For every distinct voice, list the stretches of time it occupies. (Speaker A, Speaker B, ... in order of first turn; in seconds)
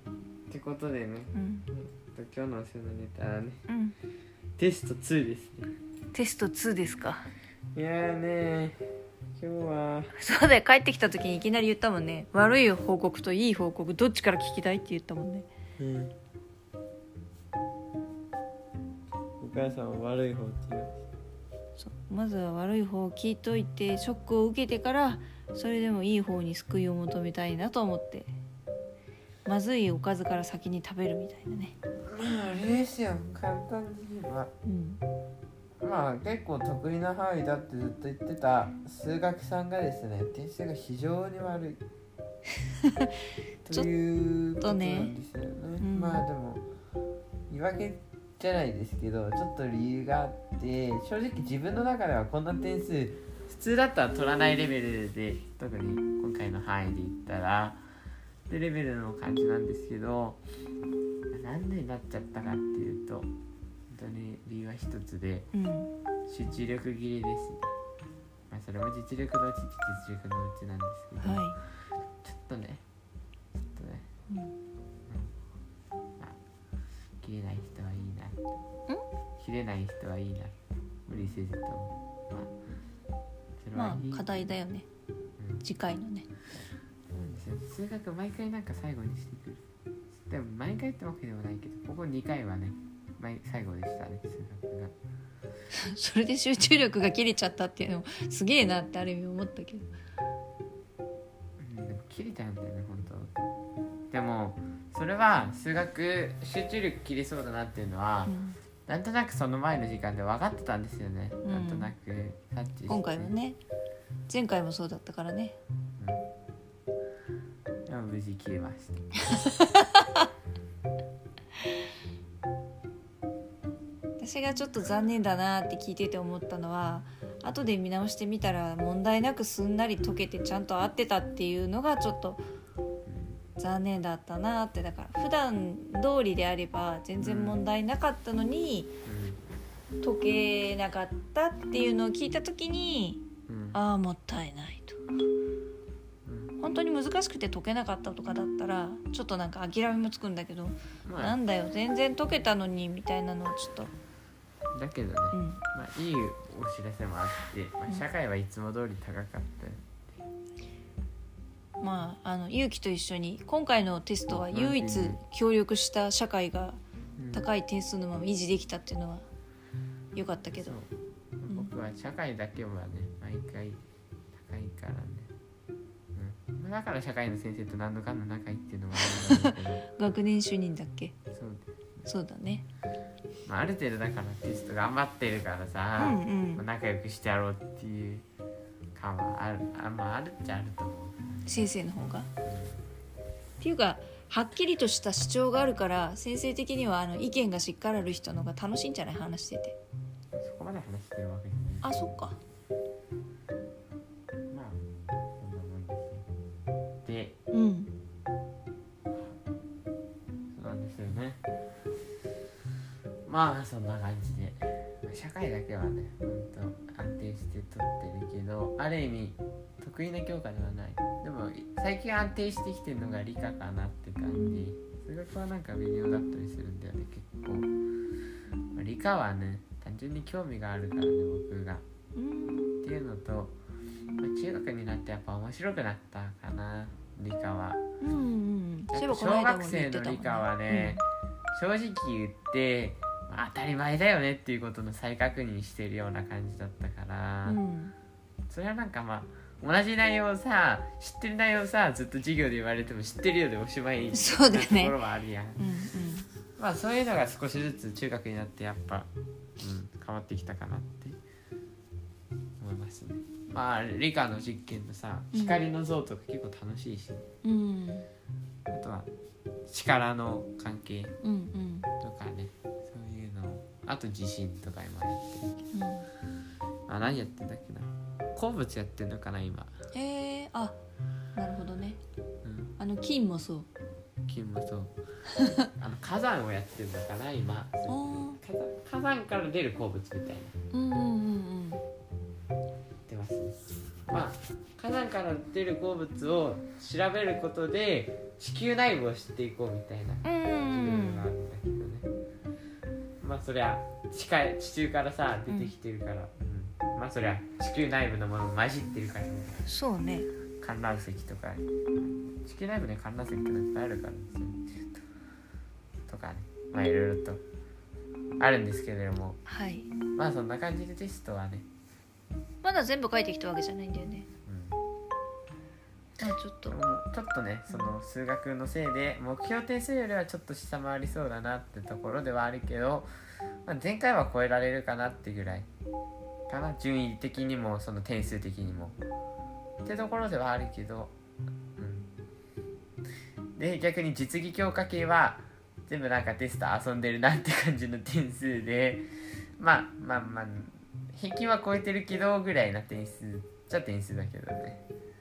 Speaker A: 0.5-3.6, 4.6-5.7, 7.7-8.8, 9.3-10.1, 15.8-16.1, 19.4-21.0, 32.1-34.5, 35.8-41.8, 43.6-46.6, 47.5-57.8, 58.5-60.4, 61.3-63.3, 63.9-65.5, 66.3-67.7, 68.5-71.5, 72.2-72.8, 73.7-74.1, 77.2-78.6, 79.4-80.5, 81.1-82.5, 83.6-84.4, 85.4-85.6, 86.5-89.6, 90.2-94.9, 101.6-103.3, 104.1-108.3, 108.9-113.3, 116.0-116.2, 117.9-119.0, 133.1-133.4, 137.2-137.6, 139.0-139.4, 143.5-143.8, 146.2-146.6, 151.0-151.4, 154.7-159.9, 164.3-165.2, 167.2-167.5, 170.6-170.9, 171.4-173.8, 174.3-175.3, 176.1-179.8, 181.3-181.7, 183.4-188.2, 188.9-191.7, 192.4-192.8, 200.3-202.1, 204.5-204.8, 205.4-206.2, 207.0-207.4, 210.5-211.4, 213.2-227.7, 228.7-231.8, 232.8-233.6, 234.2-237.8, 238.9-247.6, 248.5-255.6, 256.6-261.1, 262.6-267.2, 268.7-269.1, 269.7-271.1, 272.0-275.7, 276.9-279.7, 282.4-282.7, 284.2-284.9, 285.7-290.5, 293.1-302.1, 303.2-309.6, 310.6-314.7, 316.1-317.4, 318.4-319.4, 320.1-321.7, 324.4-324.8, 326.7-333.1, 333.6-335.7, 336.5-338.9, 339.8-341.1, 341.8-342.1, 343.6-349.1, 349.6-354.8
Speaker B: 1.3-1.7, 3.7-4.0, 6.1-7.3, 10.2-15.5, 21.8-28.3, 29.4-31.7, 34.6-35.0, 44.6-45.1, 45.8-46.2, 65.5-65.9, 71.2-71.6, 83.7-84.9, 85.6-86.3, 95.8-99.9, 108.2-108.6, 111.4-111.9, 112.9-113.6, 114.3-115.6, 119.3-120.2, 124.2-132.4, 133.6-138.9, 140.0-145.0, 146.6-153.9, 155.3-155.6, 161.8-166.8, 167.3-169.2, 170.1-170.7, 179.1-181.1, 182.1-182.6, 186.0-186.6, 191.5-192.3, 193.6-199.8, 201.8-202.4, 207.5-207.9, 224.3-224.6, 232.2-232.7, 238.0-241.0, 247.4-247.9, 254.1-254.9, 255.6-256.2, 265.3-265.6, 267.4-268.1, 271.2-271.9, 275.7-276.1, 279.9-280.8, 281.4-282.0, 282.8-283.7, 287.9-288.4, 290.7-291.8, 300.2-301.3, 309.7-310.3, 319.5-319.9, 322.6-324.2, 326.2-326.8